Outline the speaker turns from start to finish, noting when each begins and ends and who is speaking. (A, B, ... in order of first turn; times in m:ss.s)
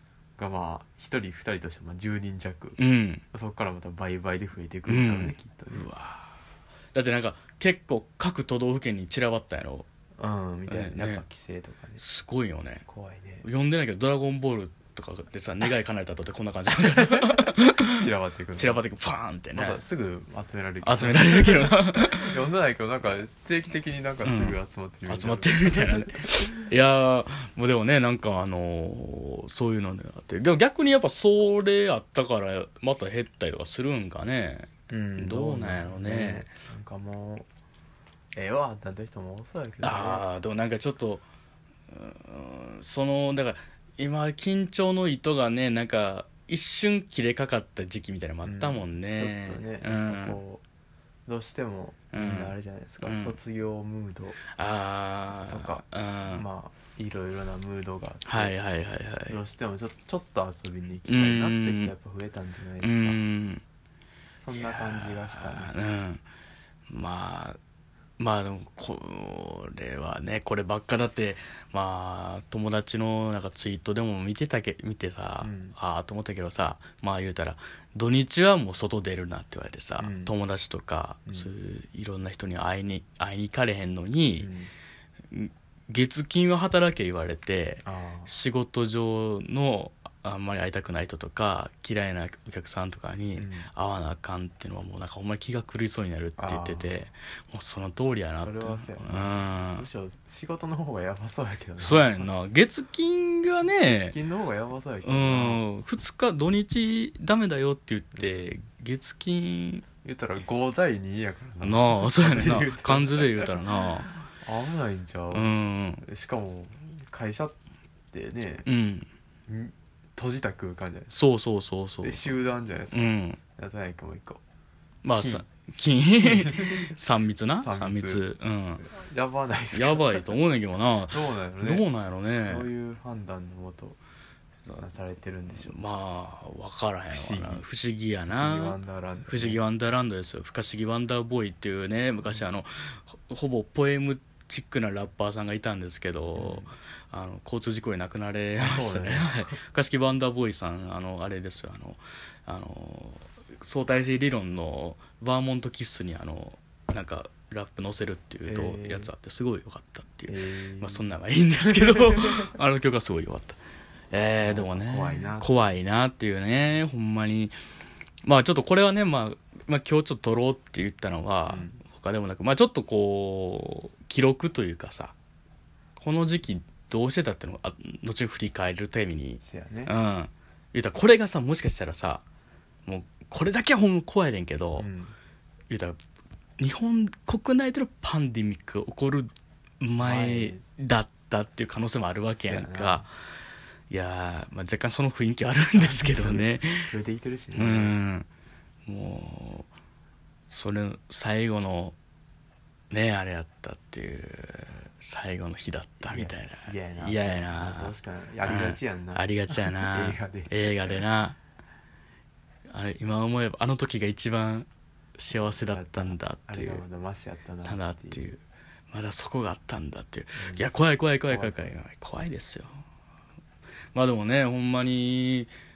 0:00.4-0:02.8 A
0:02.8-0:03.2 B
0:03.3-0:05.8 A
0:04.9-0:06.3 B
0:06.9-0:09.9 B
0:10.2-0:12.0 A
0:10.7-0:11.2 B
0:12.0-0:12.8 B
0:12.8-0:13.4 A
0:13.4-0:19.8 B
0:17.0-0:18.8 A
0:19.5-0:26.6 A
0:20.8-0:22.4 B
0:24.2-0:36.5 B
0:34.9-0:37.5 A
0:38.3-0:40.2 A
0:39.8-0:41.2 B
0:41.9-0:50.4 B
0:48.4-0:50.6 A
0:51.2-0:54.4 A
0:52.1-0:53.4 B
0:54.5-0:56.4 B
0:55.5-0:58.5 A
0:58.2-0:59.4 B
0:59.3-1:03.2 A
1:01.1-1:01.9 B
1:02.8-1:03.6 B
1:04.4-1:05.7 A
1:04.5-1:06.2 B
1:06.9-1:07.6 B
1:08.2-1:24.5 B
1:15.4-1:15.8 A
1:20.0-1:20.3 A
1:24.4-1:24.7 A
1:25.3-1:39.8 B
1:27.8-1:28.3 A
1:33.4-1:33.7 A
1:36.4-1:37.0 A
1:38.4-1:42.3 A
1:41.8-1:44.2 B
1:43.8-1:45.6 A
1:45.0-1:49.8 B
1:50.0-1:53.6 A
1:51.6-1:54.1 B
1:54.3-1:55.5 A
1:55.3-1:56.0 B
1:56.0-1:57.6 A
1:58.1-1:58.6 A
1:58.6-1:59.1 B
1:59.5-2:01.1 A
2:01.1-2:02.3 B
2:02.0-2:04.4 A
2:02.9-2:03.4 B
2:05.0-2:08.8 B
2:05.1-2:05.4 A
2:06.2-2:06.9 A
2:07.6-2:08.2 A
2:08.8-2:10.2 A
2:09.7-2:12.7 B
2:11.1-2:11.8 A
2:12.4-2:14.0 A
2:14.8-2:15.8 A
2:15.5-2:43.6 B
2:17.1-2:17.6 A
2:18.3-2:19.6 A
2:26.4-2:26.7 A
2:28.6-2:29.6 A
2:38.4-2:39.1 A
2:40.3-2:41.1 A
2:41.7-2:42.5 A
2:44.1-2:47.6 B
2:44.4-2:45.5 A
2:48.2-2:55.1 B
2:51.5-2:51.8 A
2:56.0-3:02.2 B
2:59.4-2:59.9 A
3:02.8-3:04.9 B
3:04.8-3:05.1 A
3:05.7-3:06.0 B
3:06.6-3:13.1 B
3:10.0-3:10.6 A
3:12.4-3:13.0 A
3:13.9-3:16.9 B
3:15.8-3:18.0 A
3:17.6-3:18.3 B
3:18.9-3:19.7 B
3:20.5-3:21.9 B
3:22.9-3:27.9 B
3:26.0-3:31.0 A
3:28.4-3:31.4 B
3:32.7-3:36.8 B
3:35.3-3:38.2 A
3:37.6-3:42.8 B
3:40.4-3:40.6 A
3:41.3-3:41.8 A
3:43.9-3:45.5 B